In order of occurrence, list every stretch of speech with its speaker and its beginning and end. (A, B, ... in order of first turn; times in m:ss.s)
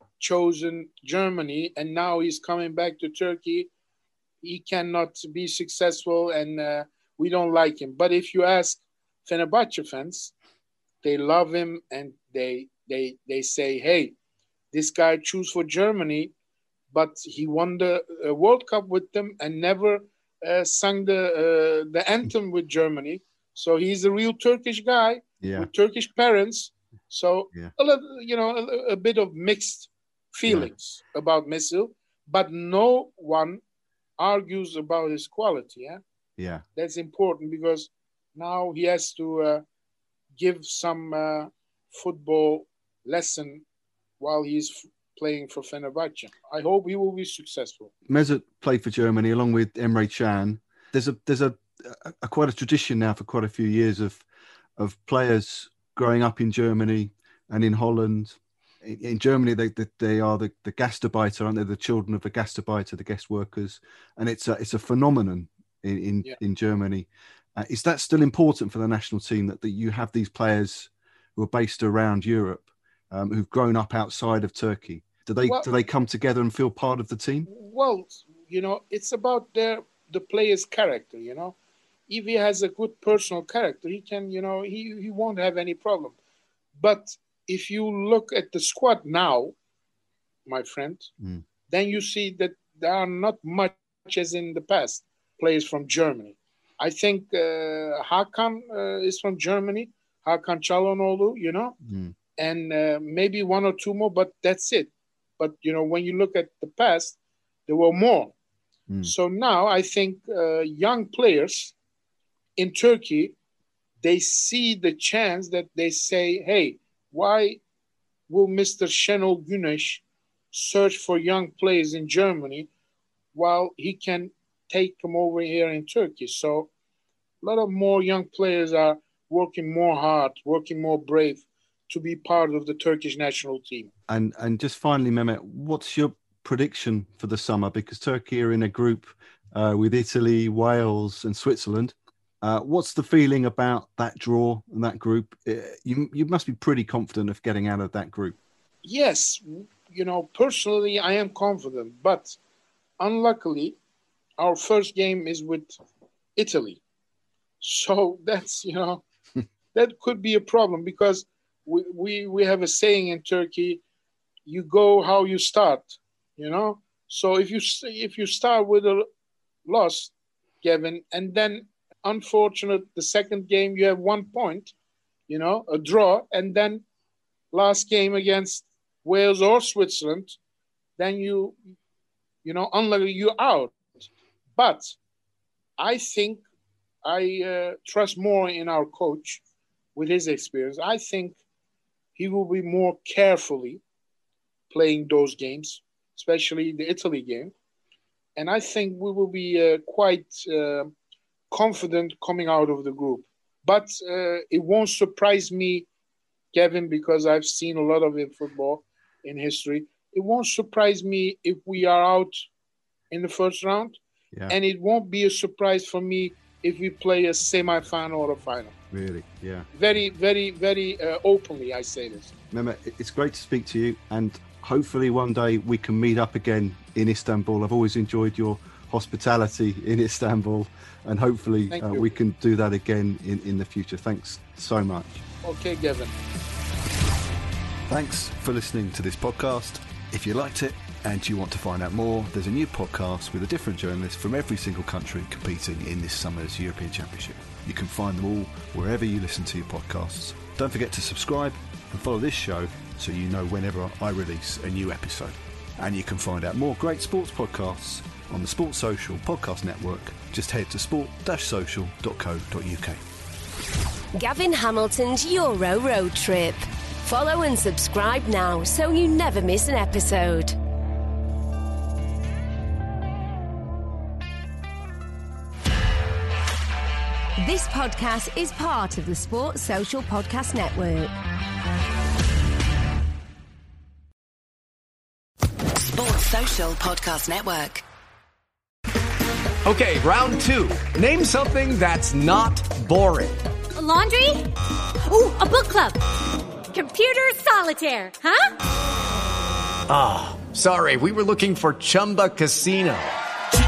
0:00.2-0:03.7 A
0:04.4-0:10.3 A
0:11.0-0:14.1 A
0:14.7-0:16.3 A
0:16.9-0:33.6 A
0:25.4-0:25.7 B
0:30.5-0:30.7 B
0:34.2-0:36.0 A
0:36.4-0:36.6 B
0:36.8-0:39.6 A
0:40.4-0:43.6 A
0:44.2-0:47.9 A
0:48.1-0:54.2 B
0:54.8-1:17.5 B
1:17.5-1:21.6 A
1:22.1-1:26.2 A
1:26.8-1:29.5 A
1:30.5-1:31.1 A
1:31.7-1:41.8 A
1:41.8-1:42.1 B
1:42.4-1:48.3 A
1:48.9-1:49.1 B
1:49.0-1:51.7 A
1:52.6-1:53.3 A
1:54.0-1:57.6 A
1:58.3-2:02.7 A
2:03.3-2:06.7 A
2:07.4-2:13.9 A
2:14.1-2:28.4 B
2:28.8-2:32.4 A
2:33.0-2:33.8 A
2:34.4-2:35.8 A
2:36.4-2:36.8 A
2:37.6-2:39.0 A
2:39.7-2:43.8 A
2:44.5-2:49.0 A
2:49.7-2:54.7 A
2:55.3-2:56.8 A
2:57.5-3:00.4 A
3:01.0-3:01.6 A
3:02.4-3:05.0 A
3:05.8-3:06.4 A
3:07.0-3:09.4 A
3:10.0-3:11.4 A
3:12.2-3:13.8 A
3:14.7-3:17.5 A
3:18.4-3:20.9 A
3:21.5-3:25.9 A
3:26.5-3:32.3 A
3:33.1-3:34.0 A
3:34.5-3:38.7 A
3:38.9-3:39.7 B
3:39.7-3:42.3 A
3:42.5-3:55.2 B
3:51.7-3:52.1 A
3:55.4-3:56.2 A
3:57.9-4:23.0 B
4:24.1-4:30.6 C
4:37.4-4:41.1 C
4:45.9-4:47.8 D
4:49.6-4:53.4 E
4:53.8-4:54.5 F
4:55.0-4:56.0 F
4:56.7-4:58.5 F
4:59.9-5:03.1 E